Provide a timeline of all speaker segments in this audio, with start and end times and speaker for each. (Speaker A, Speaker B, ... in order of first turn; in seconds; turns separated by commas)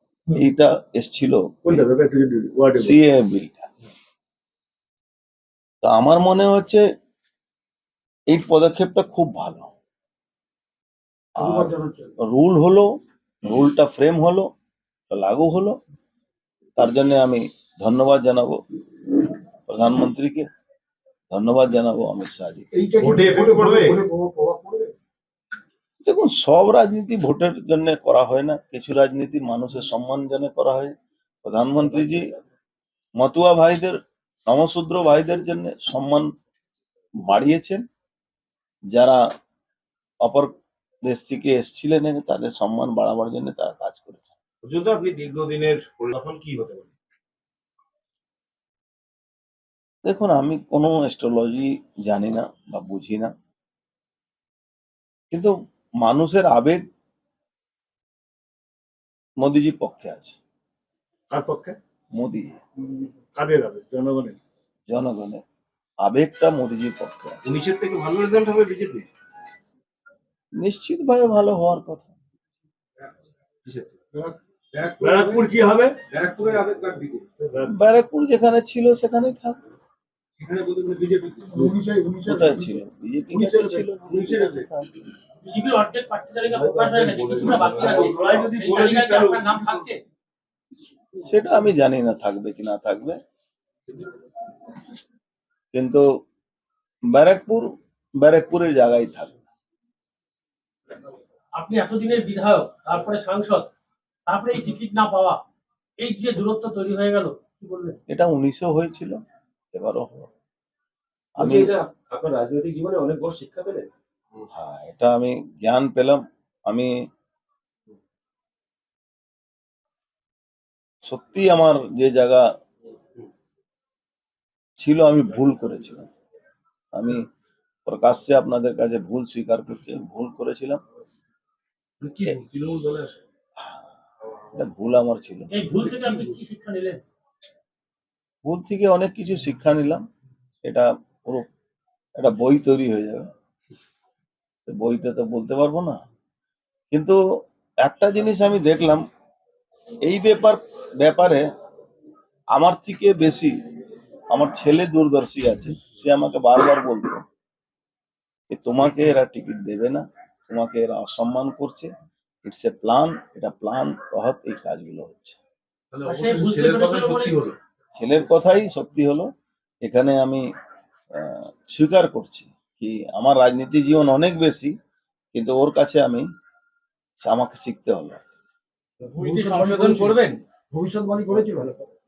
Speaker A: 0.3-1.8, Speaker B: 1.6-3.0, Speaker A: 2.7-3.7, Speaker A: 5.8-6.8, Speaker A: 8.3-9.7, Speaker B: 11.3-12.1, Speaker A: 11.4-12.9, Speaker A: 13.4-14.5, Speaker A: 15.1-15.8, Speaker A: 16.8-18.6, Speaker A: 19.7-20.5, Speaker A: 21.3-22.7, Speaker B: 22.7-24.9, Speaker C: 23.0-24.0, Speaker A: 26.0-32.3, Speaker A: 33.2-36.3, Speaker A: 37.2-37.8, Speaker A: 38.9-39.2, Speaker A: 40.2-40.5, Speaker A: 41.0-44.3, Speaker C: 44.6-46.9, Speaker A: 50.0-53.3, Speaker A: 55.3-56.8, Speaker A: 59.4-60.4, Speaker B: 61.3-61.8, Speaker A: 62.1-62.6, Speaker B: 63.3-64.4, Speaker A: 64.9-65.4, Speaker A: 66.0-67.5, Speaker C: 67.4-69.1, Speaker A: 70.6-72.1, Speaker C: 73.6-73.9, Speaker C: 74.7-77.2, Speaker B: 75.0-76.0, Speaker B: 77.4-77.7, Speaker A: 77.6-79.6, Speaker C: 80.4-81.7, Speaker B: 81.5-84.3, Speaker A: 82.2-84.9, Speaker C: 84.1-84.7, Speaker D: 85.4-90.0, Speaker B: 86.5-89.8, Speaker C: 87.3-89.4, Speaker A: 91.2-93.2, Speaker A: 95.7-96.1, Speaker A: 97.1-99.4, Speaker D: 101.6-103.7, Speaker D: 104.3-105.4, Speaker D: 106.0-108.0, Speaker A: 108.1-109.2, Speaker A: 109.7-110.3, Speaker A: 111.4-111.7, Speaker C: 111.4-113.9, Speaker A: 114.5-116.9, Speaker A: 121.0-122.5, Speaker A: 124.8-126.1, Speaker A: 126.9-127.2, Speaker A: 127.8-130.8, Speaker C: 132.0-133.2, Speaker A: 133.6-133.9, Speaker A: 134.5-135.5, Speaker D: 135.5-137.0, Speaker A: 138.4-140.0, Speaker A: 140.6-141.4, Speaker A: 142.2-143.3, Speaker A: 144.7-146.0, Speaker A: 146.9-147.2, Speaker A: 147.8-149.0, Speaker A: 150.0-151.5, Speaker A: 152.5-153.5, Speaker A: 154.3-157.2, Speaker A: 158.5-161.9, Speaker A: 162.4-165.4, Speaker C: 165.9-167.6, Speaker D: 166.0-167.4, Speaker A: 167.9-169.3, Speaker A: 169.8-170.5, Speaker A: 171.1-174.7, Speaker A: 175.3-176.3, Speaker A: 177.2-178.2, Speaker C: 179.0-180.3, Speaker B: 179.2-180.1, Speaker D: 179.7-180.4, Speaker B: 180.7-181.8